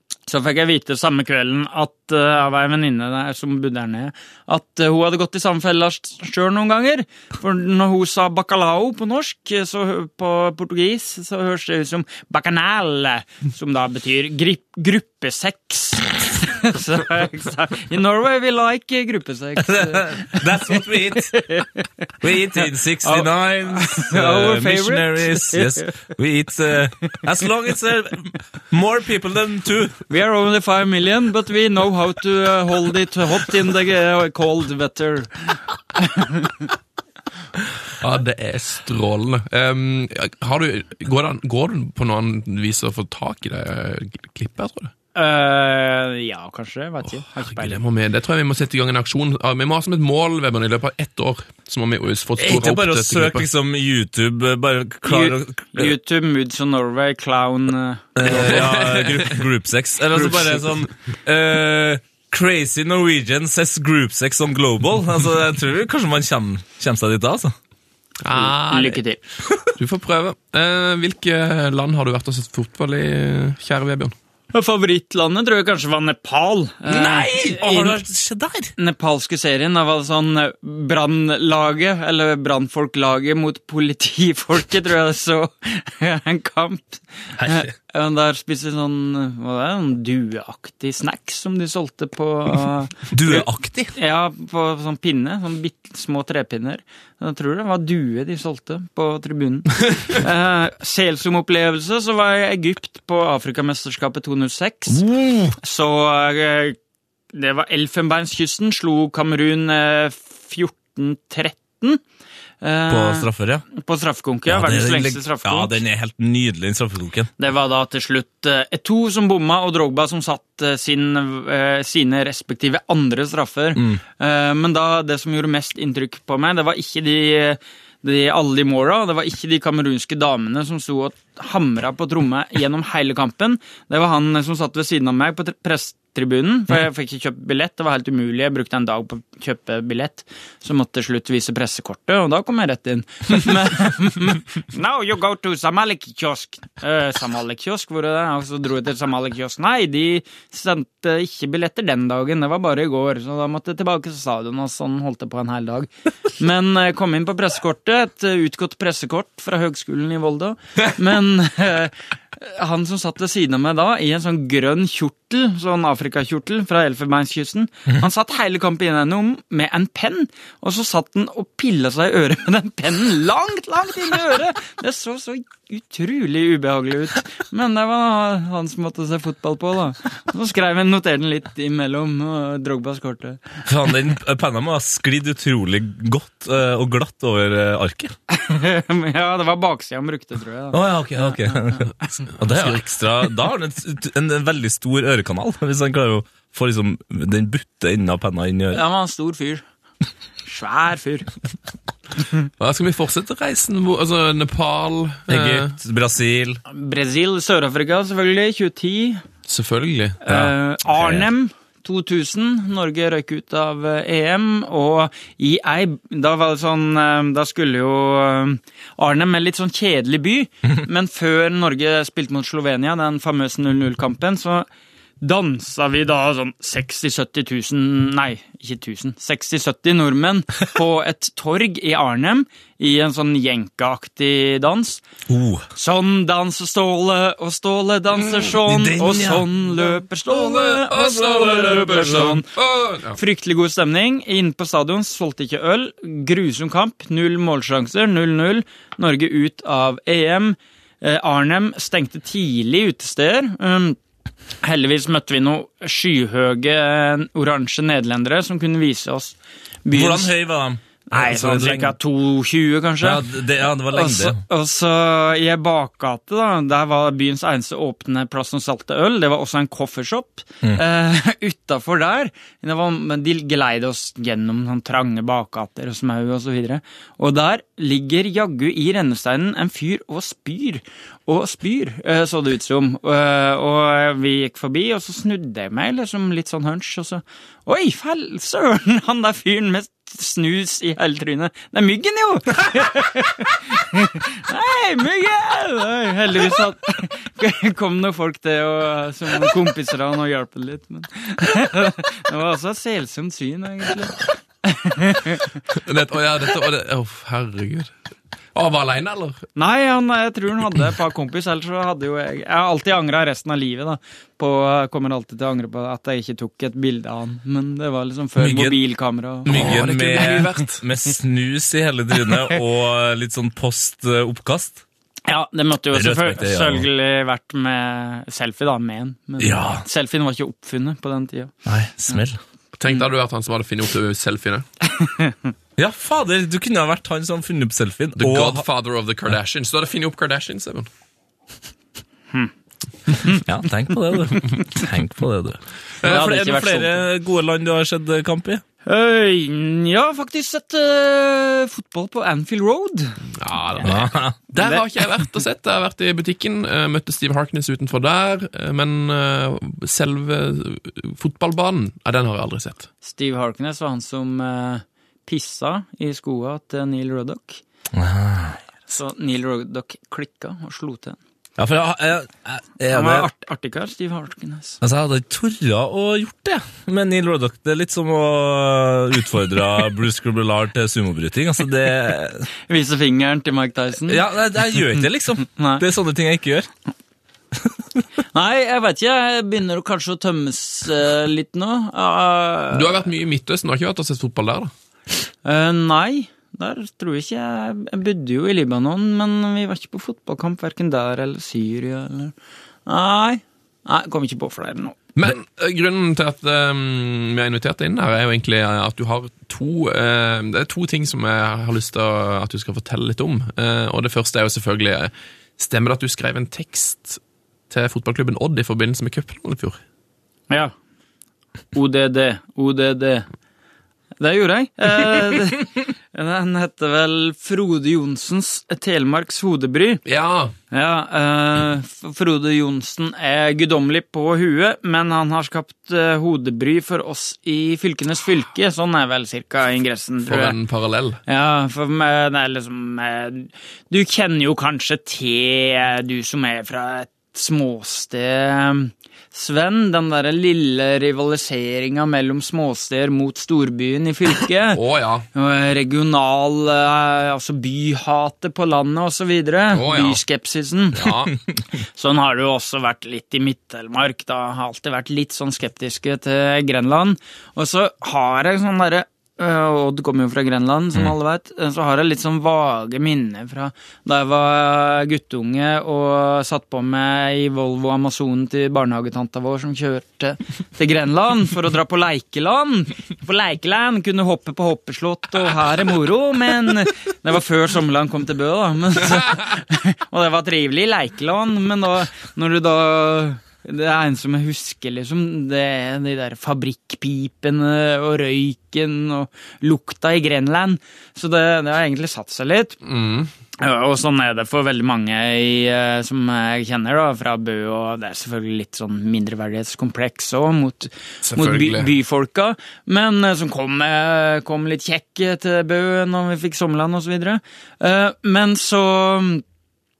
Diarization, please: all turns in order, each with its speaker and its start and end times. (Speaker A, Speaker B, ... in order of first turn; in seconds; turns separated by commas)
Speaker A: 0.3-21.8, Speaker B: 19.6-21.4, Speaker B: 22.2-30.0, Speaker A: 23.0-25.9, Speaker A: 30.1-36.7, Speaker C: 38.0-44.9, Speaker A: 45.1-47.8, Speaker C: 47.4-53.5, Speaker B: 52.4-55.9, Speaker A: 55.0-58.5, Speaker B: 58.1-67.5, Speaker C: 58.2-59.4, Speaker C: 68.2-69.0, Speaker A: 68.3-69.2, Speaker C: 69.8-74.1, Speaker A: 74.5-78.0, Speaker B: 76.9-78.7, Speaker A: 78.8-105.0, Speaker B: 87.4-87.7, Speaker B: 93.1-93.9, Speaker B: 104.9-105.5, Speaker A: 105.6-106.8, Speaker A: 107.3-112.0, Speaker A: 112.6-115.8, Speaker B: 112.9-113.6, Speaker B: 114.5-117.3, Speaker A: 117.4-183.6, Speaker B: 123.8-124.0, Speaker B: 183.6-188.1, Speaker A: 188.3-192.1, Speaker B: 190.7-198.8, Speaker A: 198.7-199.6, Speaker A: 200.4-201.3, Speaker C: 202.6-205.7, Speaker B: 205.3-206.6, Speaker A: 206.7-209.2, Speaker C: 209.5-210.2, Speaker A: 210.2-224.7, Speaker B: 210.3-211.3, Speaker A: 225.2-235.0, Speaker B: 235.3-235.7, Speaker A: 235.7-242.5, Speaker B: 238.6-239.4, Speaker C: 240.3-243.2, Speaker A: 243.1-254.0, Speaker A: 254.6-260.3, Speaker B: 259.9-261.9, Speaker A: 261.1-263.2, Speaker B: 263.0-264.4, Speaker A: 263.8-305.5, Speaker C: 305.7-307.9, Speaker C: 308.5-309.4, Speaker A: 309.6-319.6, Speaker B: 318.4-318.8, Speaker B: 319.4-324.8, Speaker C: 319.5-320.8, Speaker A: 325.3-331.5, Speaker B: 325.9-326.9, Speaker B: 329.4-329.8, Speaker B: 331.6-332.4, Speaker C: 332.8-334.6, Speaker A: 335.0-335.3, Speaker B: 335.8-338.6, Speaker C: 338.2-340.9, Speaker B: 343.3-348.6, Speaker A: 346.0-347.0, Speaker C: 346.0-346.4, Speaker A: 348.9-353.2, Speaker C: 353.4-362.9, Speaker B: 353.8-354.4, Speaker A: 363.0-367.6, Speaker B: 367.9-368.6, Speaker A: 368.9-371.2, Speaker B: 371.6-373.3, Speaker A: 372.9-374.8, Speaker B: 374.8-382.5, Speaker A: 382.7-384.2, Speaker B: 384.1-386.7, Speaker A: 385.5-385.8, Speaker A: 388.3-393.1, Speaker C: 392.7-394.7, Speaker A: 395.4-402.3, Speaker A: 402.9-405.0, Speaker C: 405.2-419.8, Speaker A: 421.7-423.2, Speaker A: 424.2-430.0, Speaker C: 430.1-430.5, Speaker A: 430.7-440.5, Speaker C: 440.2-441.2, Speaker A: 441.3-454.8, Speaker C: 454.7-455.2, Speaker A: 455.3-461.1, Speaker C: 459.7-460.2, Speaker C: 460.9-461.3, Speaker A: 461.9-502.8, Speaker C: 502.8-503.3, Speaker A: 503.6-519.4, Speaker C: 511.2-511.9